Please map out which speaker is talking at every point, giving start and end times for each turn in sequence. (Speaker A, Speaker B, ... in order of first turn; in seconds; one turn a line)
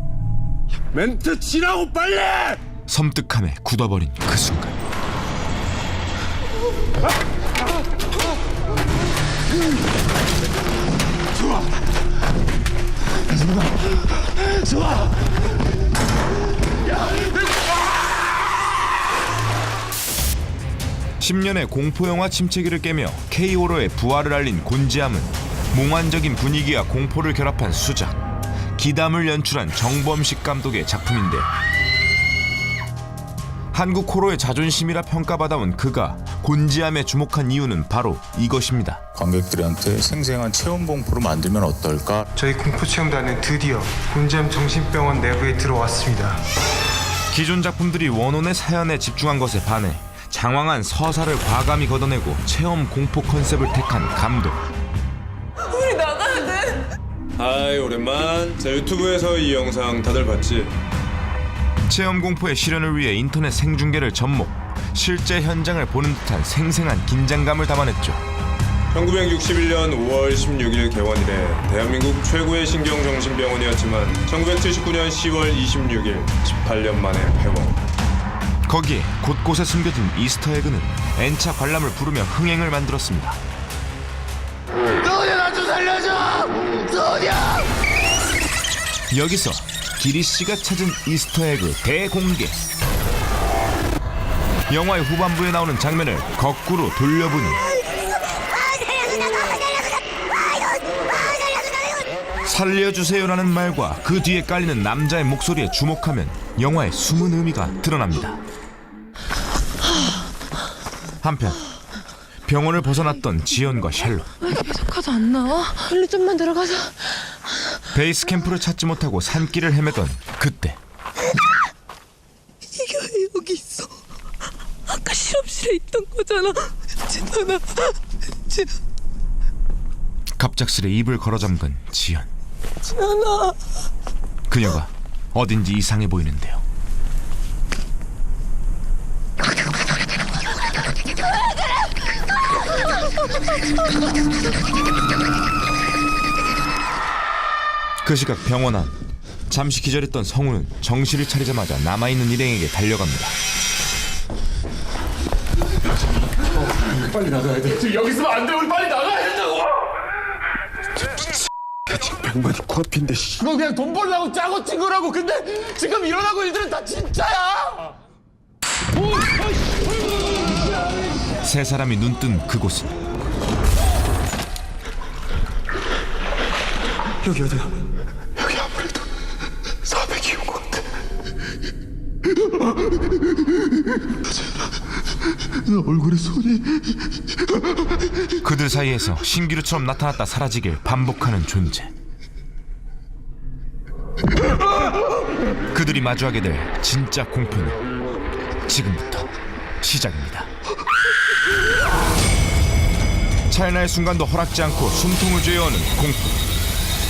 Speaker A: 0.9-2.6
Speaker B: 2.9-4.7
Speaker B: 21.2-28.2
Speaker B: 28.8-31.5
Speaker B: 33.7-39.0
Speaker C: 39.1-42.2
Speaker D: 42.3-46.4
Speaker B: 47.3-54.6
Speaker E: 55.8-56.5
Speaker F: 57.4-60.7
Speaker B: 61.9-68.2
Speaker F: 68.9-77.7
Speaker B: 78.7-83.4
Speaker B: 89.1-92.5
Speaker B: 94.7-97.7
Speaker B: 102.5-108.4
Speaker B: 111.2-111.6
Speaker B: 112.4-114.3
Speaker E: 114.6-117.1
Speaker B: 117.9-120.8
Speaker E: 122.8-123.8
Speaker E: 124.9-127.8
Speaker B: 130.4-132.3
Speaker E: 133.1-133.5
Speaker B: 134.5-136.6
Speaker B: 148.0-148.9
Speaker B: 149.5-153.3
Speaker A: 157.1-159.5
Speaker D: 161.9-163.4
Speaker A: 163.4-167.6
Speaker B: 171.4-172.9
Speaker D: 177.2-177.7
Speaker D: 178.4-179.0
Speaker D: 179.9-180.8
Speaker D: 185.7-186.6
Speaker B: 188.4-191.9
Speaker B: 195.7-197.8
Speaker B: 198.7-199.3
Speaker B: 199.8-200.5
Speaker B: 203.5-206.4